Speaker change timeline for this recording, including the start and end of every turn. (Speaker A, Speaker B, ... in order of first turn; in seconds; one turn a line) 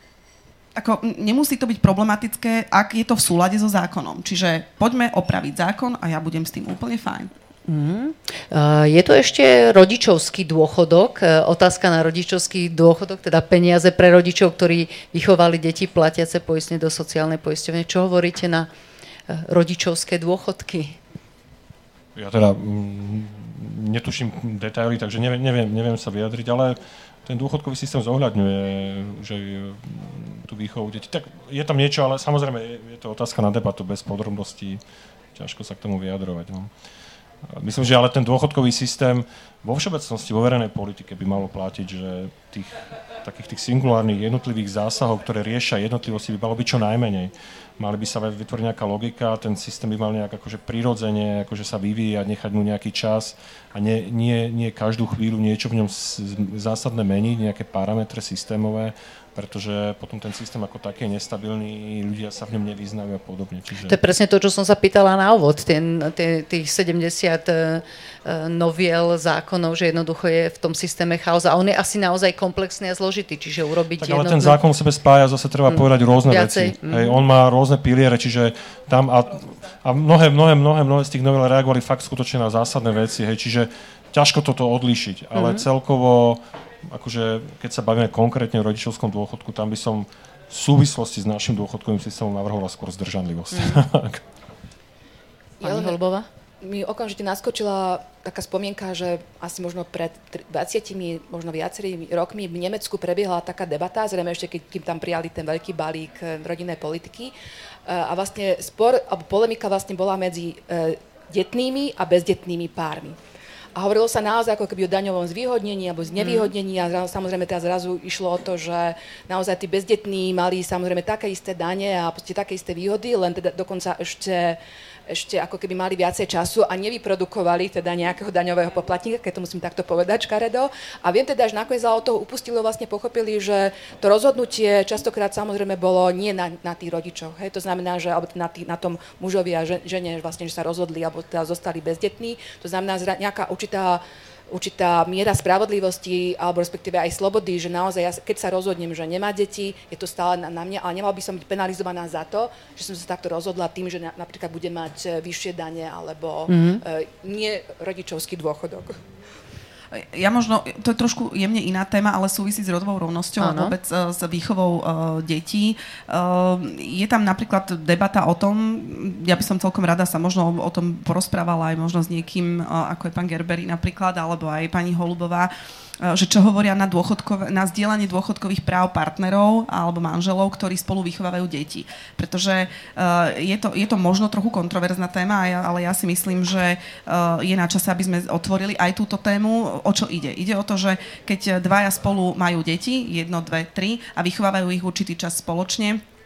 Speaker A: 0.8-7.3
Speaker B: 7.7-18.7
Speaker B: 19.3-21.0
Speaker C: 22.1-34.8
Speaker C: 35.4-36.7
Speaker C: 37.5-64.0
Speaker B: 63.9-74.6
Speaker C: 74.0-94.2
Speaker B: 75.7-77.2
Speaker B: 85.3-85.6
Speaker B: 93.5-93.8
Speaker D: 95.6-96.0
Speaker B: 95.6-96.3
Speaker D: 96.6-107.3
Speaker D: 107.9-113.2
Speaker D: 113.8-159.0
Speaker B: 116.2-116.5
Speaker B: 156.5-156.8
Speaker A: 159.9-175.5
Speaker B: 163.4-163.8
Speaker A: 176.0-196.0